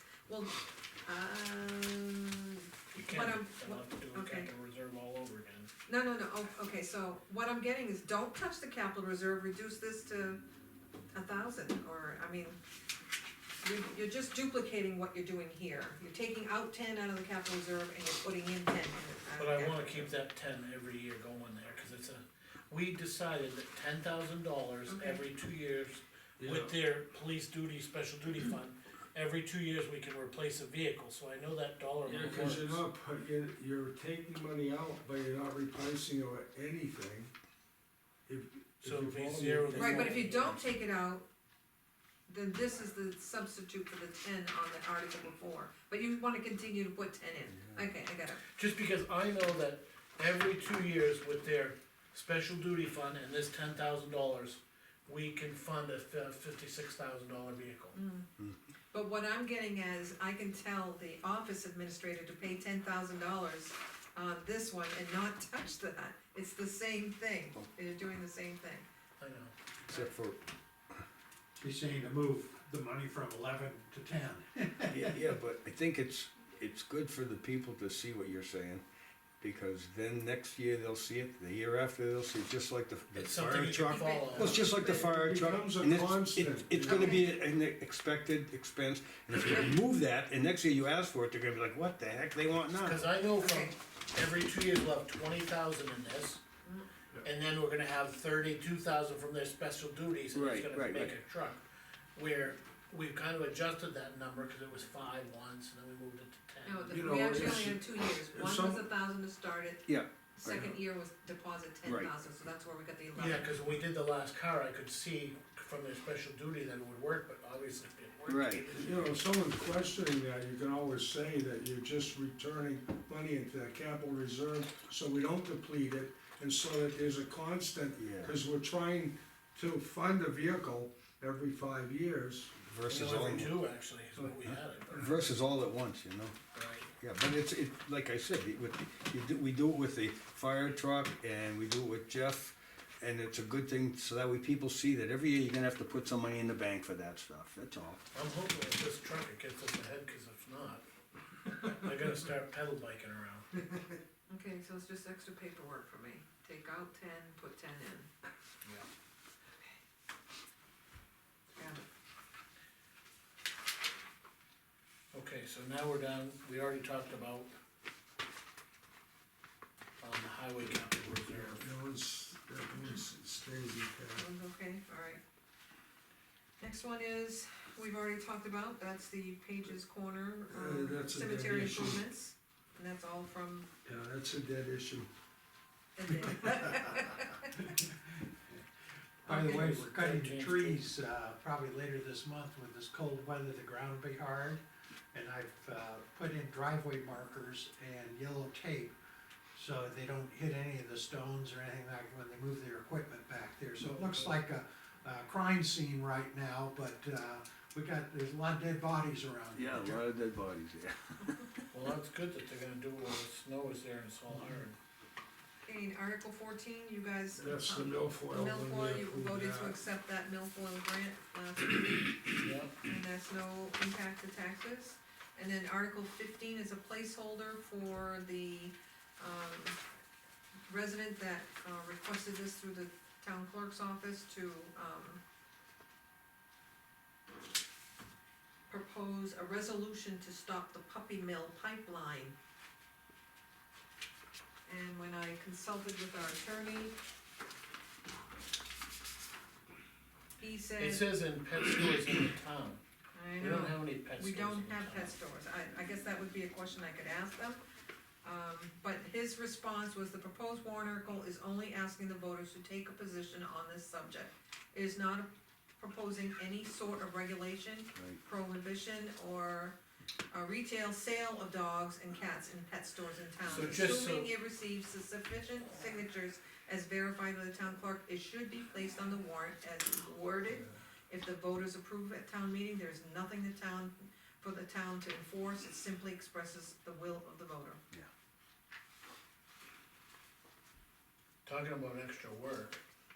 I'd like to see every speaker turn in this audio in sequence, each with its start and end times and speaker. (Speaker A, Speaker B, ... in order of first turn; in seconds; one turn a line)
Speaker A: 0.3-4.5
Speaker B: 2.9-5.7
Speaker A: 5.9-10.4
Speaker A: 11.1-12.6
Speaker A: 13.6-20.1
Speaker B: 19.4-32.8
Speaker A: 24.9-25.2
Speaker C: 26.4-26.7
Speaker C: 32.0-37.3
Speaker C: 38.3-40.1
Speaker B: 38.8-40.7
Speaker A: 39.7-41.3
Speaker A: 42.3-48.4
Speaker B: 48.5-58.0
Speaker A: 57.9-58.3
Speaker A: 58.9-68.9
Speaker B: 69.2-69.5
Speaker D: 69.9-70.4
Speaker E: 71.6-75.2
Speaker D: 74.9-78.8
Speaker D: 79.4-93.0
Speaker B: 83.1-84.6
Speaker A: 83.8-85.1
Speaker C: 84.4-87.2
Speaker A: 86.8-87.3
Speaker B: 92.8-96.4
Speaker A: 93.4-93.8
Speaker B: 97.2-101.6
Speaker D: 100.3-101.1
Speaker B: 102.1-107.1
Speaker A: 106.6-113.5
Speaker C: 106.9-108.9
Speaker D: 109.9-110.8
Speaker D: 111.8-112.1
Speaker B: 113.1-119.2
Speaker D: 118.3-118.7
Speaker C: 118.7-132.6
Speaker D: 128.0-128.4
Speaker D: 132.6-133.6
Speaker B: 132.9-135.1
Speaker D: 134.9-136.3
Speaker B: 136.5-136.9
Speaker D: 137.0-148.0
Speaker B: 148.1-150.8
Speaker B: 151.5-153.6
Speaker A: 154.3-158.1
Speaker A: 161.6-161.8
Speaker B: 165.1-167.5
Speaker B: 170.0-171.6
Speaker C: 171.3-174.2
Speaker A: 174.2-175.2
Speaker A: 176.6-183.7
Speaker C: 180.5-182.1
Speaker C: 183.8-185.1
Speaker A: 186.0-187.5
Speaker E: 189.2-194.6
Speaker A: 189.3-189.7
Speaker B: 189.3-190.8
Speaker E: 195.1-198.9
Speaker E: 199.5-210.0
Speaker B: 203.9-204.4
Speaker D: 209.5-211.6
Speaker B: 211.7-214.8
Speaker A: 215.7-222.3
Speaker C: 217.3-219.8
Speaker B: 222.4-222.8
Speaker A: 222.8-229.8
Speaker A: 230.7-235.2
Speaker A: 238.7-242.3
Speaker A: 244.7-246.9
Speaker A: 250.4-251.1
Speaker B: 250.8-252.8
Speaker A: 253.2-257.6
Speaker B: 253.4-255.2
Speaker A: 258.2-269.8
Speaker A: 270.3-287.8
Speaker B: 273.4-274.3
Speaker B: 291.4-292.8